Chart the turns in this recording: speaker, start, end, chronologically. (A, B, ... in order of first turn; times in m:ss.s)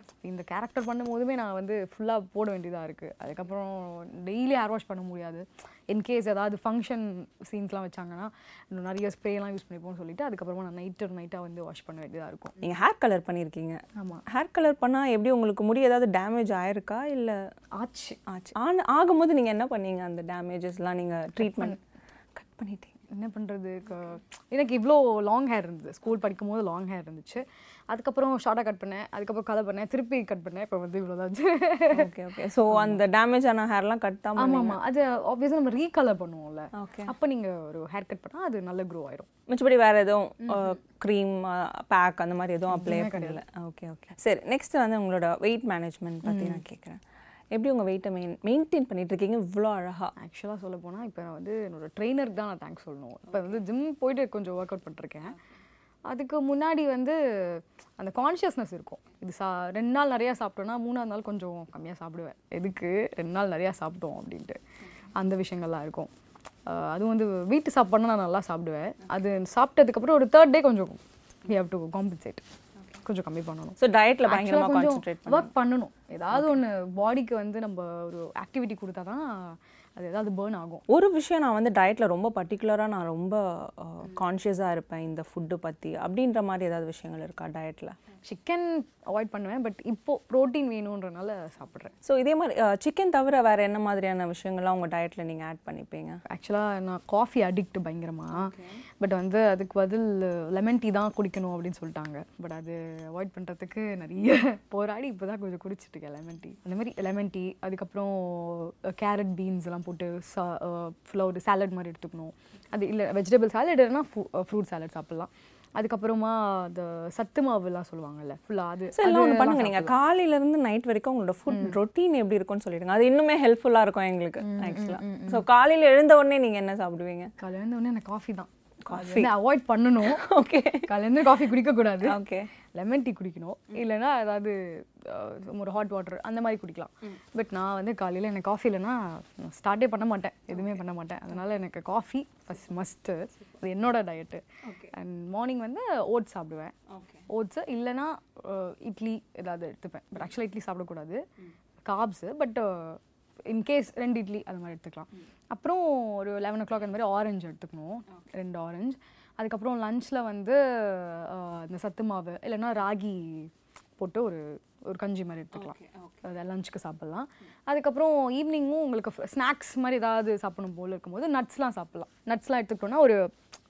0:00.2-0:12.5 A
0:12.6-0:17.4 B
0:14.0-0:14.2 A
0:17.8-0:18.2 A
0:18.3-0:21.8 B
0:21.4-0:21.8 A
0:22.3-0:22.9 B
0:23.1-0:32.1 A
0:31.9-0:34.8 B
0:32.7-0:33.0 A
0:34.4-0:39.3 A
0:36.7-0:37.1 B
0:39.5-0:47.0 B
0:42.7-0:43.4 A
0:46.2-0:46.6 A
0:47.5-0:50.1 B
0:50.2-0:55.4 A
0:56.1-1:04.6 A
1:05.1-1:06.1 A
1:06.6-1:12.4 A
1:13.0-1:20.8 A
1:13.8-1:15.5 B
1:16.3-1:16.6 B
1:20.9-1:28.0 B
1:28.2-1:31.9 A
1:32.0-1:36.2 B
1:36.3-1:59.9 A
1:38.4-1:38.8 B
1:58.9-2:07.3 B
2:04.4-2:05.4 A
2:07.4-2:10.3 A
2:08.8-2:09.3 B
2:10.0-2:11.3 B
2:10.8-2:12.2 A
2:12.0-2:12.5 B
2:12.7-2:26.7 A
2:20.5-2:20.8 B
2:24.6-2:24.9 B
2:26.9-2:27.2 B
2:27.3-2:31.2 A
2:31.8-2:53.3 A
2:45.5-2:46.1 B